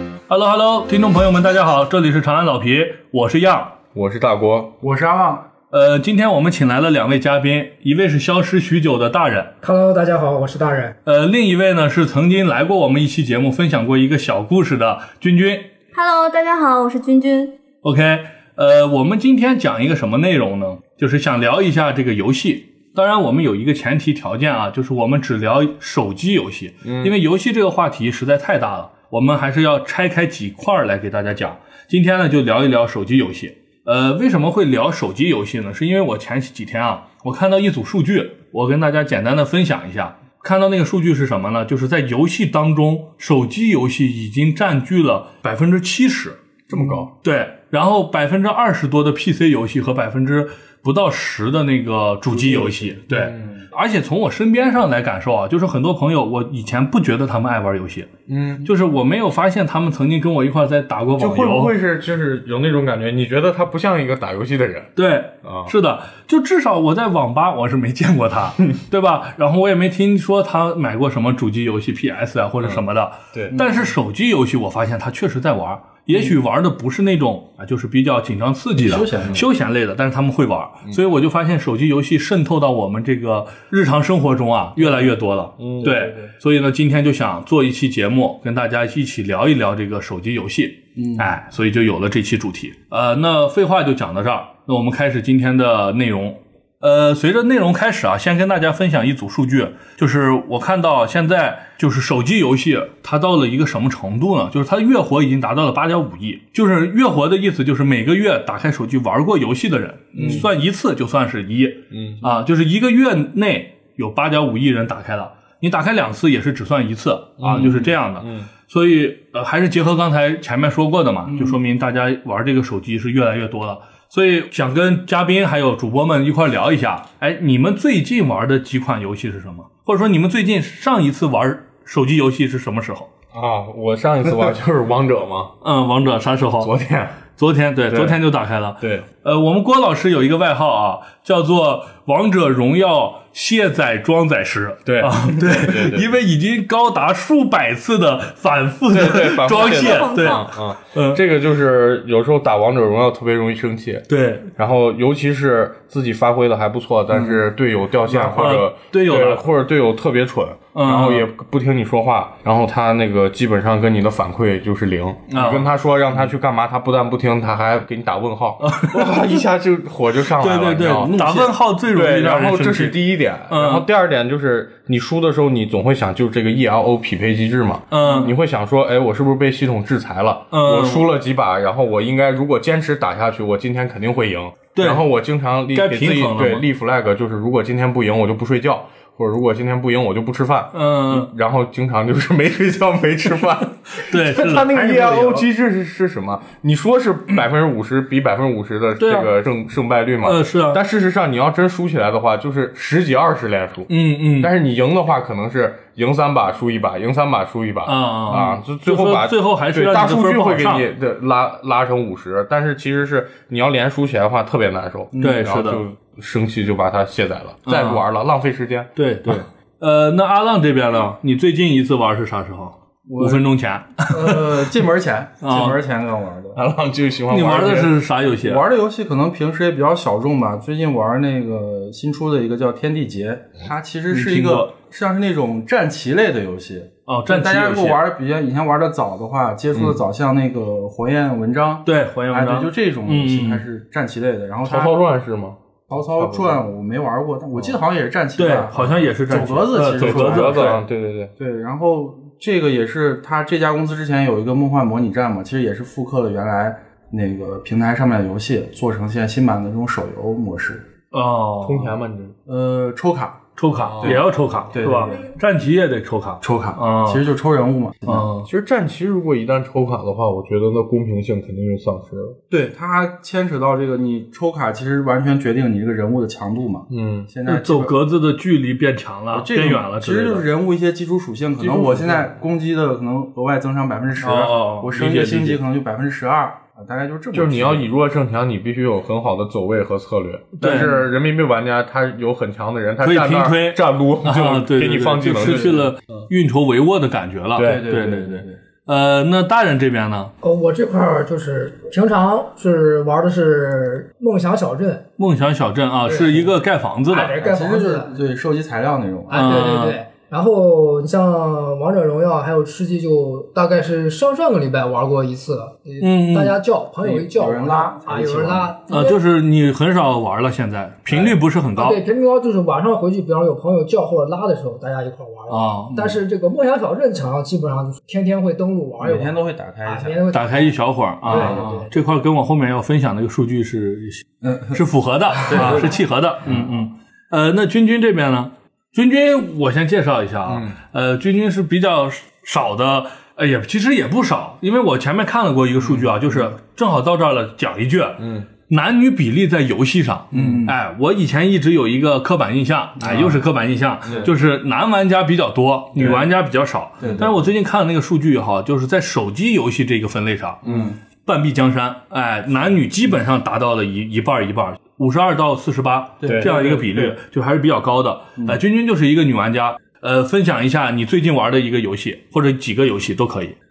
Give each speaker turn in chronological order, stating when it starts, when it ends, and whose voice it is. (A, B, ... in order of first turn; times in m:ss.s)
0:00.3-0:03.8 A
0:03.9-0:04.7 B
0:04.8-0:05.5 C
0:05.7-0:09.5 A
0:09.6-0:11.0 D
0:11.1-0:15.7 A
0:15.9-0:17.6 E
0:17.8-0:46.4 A
0:26.8-0:27.1 B
0:46.7-0:47.1 B
0:46.7-0:47.1 C
0:47.2-1:01.8 A
0:52.4-0:53.6 B
0:58.3-0:58.7 B
1:01.2-1:04.9 B
1:05.0-2:13.1 A
1:05.4-1:05.7 B
1:13.6-1:13.9 C
1:18.8-1:19.5 C
1:25.6-1:25.9 B
1:25.8-1:26.3 C
1:31.0-1:31.3 C
1:50.2-1:50.5 B
1:51.9-1:52.2 B
1:57.4-1:58.5 B
2:01.3-2:01.6 C
2:13.3-2:15.5 B
2:15.6-2:16.7 A
2:16.6-2:17.2 B
2:17.4-2:31.2 A
2:17.9-2:18.2 B
2:18.8-2:19.1 B
2:24.8-2:26.1 B
2:28.9-2:51.1 B
2:29.5-2:30.5 E
2:34.1-2:34.5 A
2:37.1-2:37.4 C
2:38.1-2:38.6 C
2:38.2-2:39.4 A
2:40.7-2:41.3 A
2:45.3-2:45.7 A
2:48.6-2:49.4 A
2:50.4-2:53.9 A
2:50.9-2:51.6 C
2:51.9-3:38.9 B
2:57.9-2:58.4 A
3:00.5-3:01.1 A
3:04.8-3:05.1 A
3:05.7-3:06.7 A
3:10.7-3:11.3 A
3:13.9-3:14.9 A
3:14.7-3:15.5 C
3:19.0-3:19.3 A
3:20.2-3:20.8 A
3:23.9-3:24.5 A
3:27.9-3:30.9 A
3:35.1-3:35.5 C
3:35.2-3:35.8 A
3:37.7-3:38.0 A
3:39.0-3:44.7 A
3:43.1-3:43.5 C
3:44.0-3:46.6 C
3:45.4-3:45.8 A
3:46.5-3:48.0 B
3:47.3-3:48.6 A
3:48.4-4:05.0 C
3:54.1-3:54.7 A
3:57.1-3:58.0 A
4:01.9-4:03.6 A
4:04.6-4:05.6 B
4:05.9-4:10.8 C
4:06.2-4:06.6 B
4:08.4-4:10.8 A
4:10.0-4:11.3 B
4:11.4-4:20.9 C
4:21.1-4:21.9 A
4:21.6-4:22.4 B
4:22.5-4:23.4 C
4:23.6-4:27.2 A
4:23.8-4:24.2 B
4:24.0-4:25.3 C
4:26.4-4:28.3 C
4:28.1-4:28.5 A
4:28.4-4:32.4 B
4:32.5-4:38.0 C
4:36.9-4:37.3 B
4:37.5-4:40.5 A
4:39.3-4:47.9 C
4:41.6-4:42.4 B
4:44.2-4:45.6 A
4:47.3-4:56.2 B
4:50.6-4:51.0 A
4:50.6-4:51.1 C
4:53.0-5:00.3 A
4:55.4-4:55.8 C
4:57.6-4:57.8 B
4:57.6-4:58.6 C
5:00.4-5:05.1 D
5:05.2-5:07.4 A
5:06.1-5:06.5 D
5:07.1-5:08.1 D
5:07.4-5:09.7 C
5:09.3-5:19.2 D
5:09.3-5:10.0 A
5:16.0-5:16.6 A
5:17.0-5:18.7 C
5:18.9-5:22.0 A
5:21.8-5:29.3 D
5:25.5-5:26.0 A
5:25.9-5:26.2 C
5:29.0-5:30.2 C
5:29.8-5:31.9 D
5:30.3-6:00.6 A
5:31.3-5:31.7 C
5:34.4-5:34.8 C
5:35.5-5:36.8 C
5:40.5-5:40.8 B
5:45.8-5:46.1 B
5:48.2-5:48.5 B
5:50.3-5:50.8 C
5:50.3-5:50.6 B
5:53.0-5:53.4 C
5:54.0-5:54.3 B
5:56.0-5:56.3 B
5:57.0-5:57.3 C
5:57.0-5:57.3 B
6:00.6-6:00.9 B
6:00.6-6:01.0 C
6:01.2-6:13.6 A
6:06.2-6:07.0 C
6:06.2-6:07.1 B